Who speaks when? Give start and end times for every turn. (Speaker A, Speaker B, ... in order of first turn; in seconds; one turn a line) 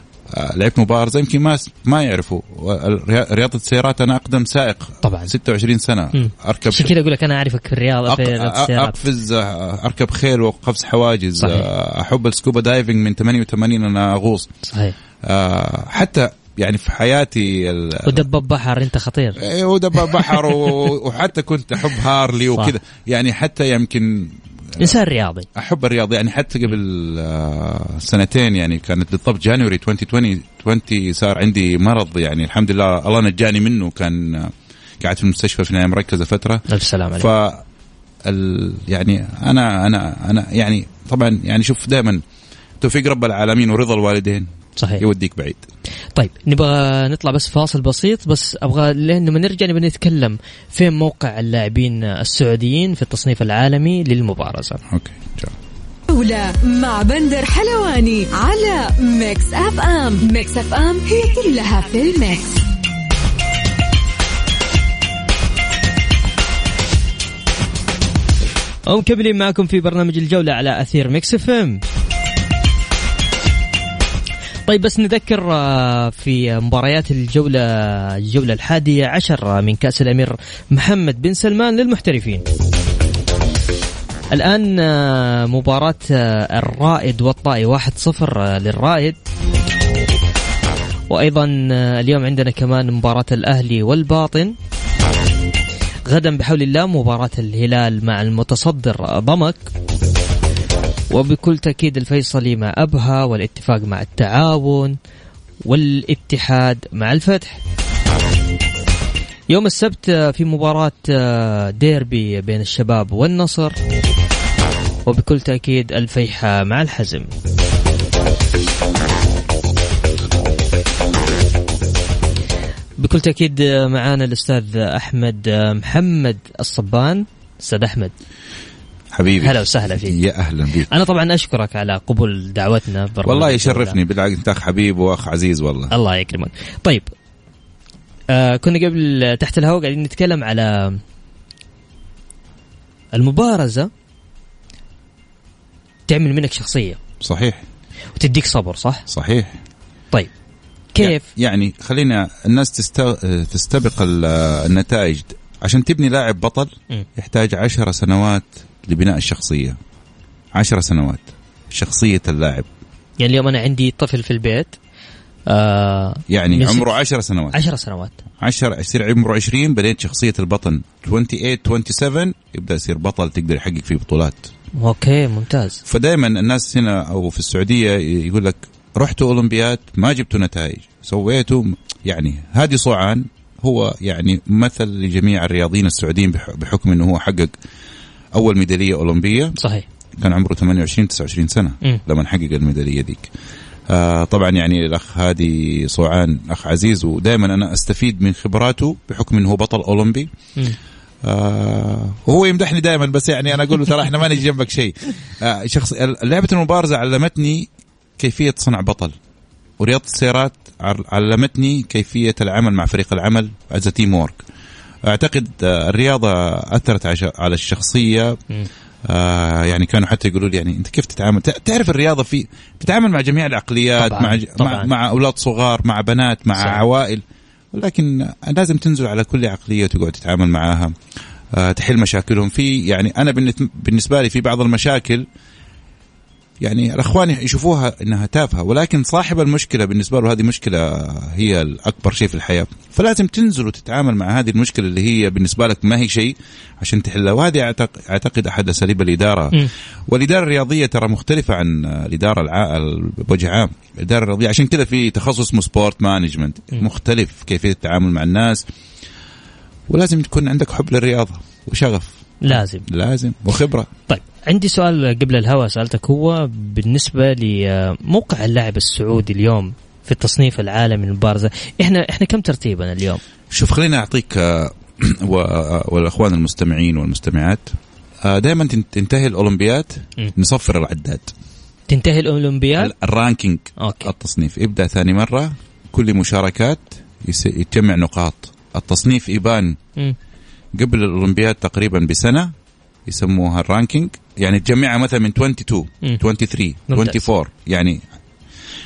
Speaker A: 0.3-6.9
Speaker B: 5.0-5.3
Speaker B: 6.1-9.0
Speaker A: 8.1-14.5
Speaker B: 11.4-11.7
Speaker B: 14.7-14.9
Speaker A: 15.2-18.3
Speaker B: 18.1-19.4
Speaker A: 19.4-24.9
Speaker B: 20.0-20.7
Speaker B: 24.8-25.5
Speaker A: 25.6-36.6
Speaker B: 36.7-37.3
Speaker A: 37.2-37.6
Speaker A: 38.2-42.2
Speaker A: 42.8-45.6
Speaker B: 44.8-45.0
Speaker B: 46.1-54.8
Speaker A: 54.9-55.6
Speaker C: 56.1-62.6
Speaker B: 68.9-71.8
Speaker B: 74.7-82.5
Speaker B: 84.3-89.2
Speaker B: 91.1-94.5
Speaker B: 96.1-99.7
Speaker B: 101.1-105.0
Speaker B: 105.7-107.6
Speaker B: 109.5-113.8
Speaker B: 115.1-117.3
Speaker B: 123.0-128.1
Speaker A: 129.1-130.9
Speaker B: 129.4-130.2
Speaker B: 130.9-134.0
Speaker A: 133.2-135.9
Speaker B: 135.9-137.1
Speaker B: 138.3-141.0
Speaker B: 143.1-143.9
Speaker B: 146.1-147.0
Speaker A: 147.2-147.6
Speaker B: 148.2-149.1
Speaker A: 149.1-149.6
Speaker B: 150.9-151.3
Speaker A: 151.0-159.8
Speaker A: 160.6-162.7
Speaker B: 163.2-164.8
Speaker B: 165.5-166.9
Speaker A: 166.3-167.6
Speaker B: 167.5-168.2
Speaker A: 168.4-174.5
Speaker B: 174.8-175.8
Speaker A: 175.9-187.5
Speaker A: 188.3-189.6
Speaker B: 189.6-189.8
Speaker A: 190.2-193.3
Speaker A: 193.9-200.3
Speaker A: 201.2-209.2
Speaker A: 209.8-214.4
Speaker A: 215.1-218.4
Speaker A: 219.1-230.9
Speaker B: 224.0-224.9
Speaker B: 226.6-226.8
Speaker A: 231.5-235.3
Speaker A: 236.6-258.6
Speaker A: 259.9-263.9
Speaker B: 262.4-262.9
Speaker B: 264.1-273.2
Speaker A: 273.5-277.7
Speaker A: 278.2-281.3
Speaker B: 281.9-282.9
Speaker A: 282.8-289.8
Speaker B: 283.8-284.1
Speaker A: 290.8-292.5
Speaker A: 293.1-298.0
Speaker B: 296.9-297.3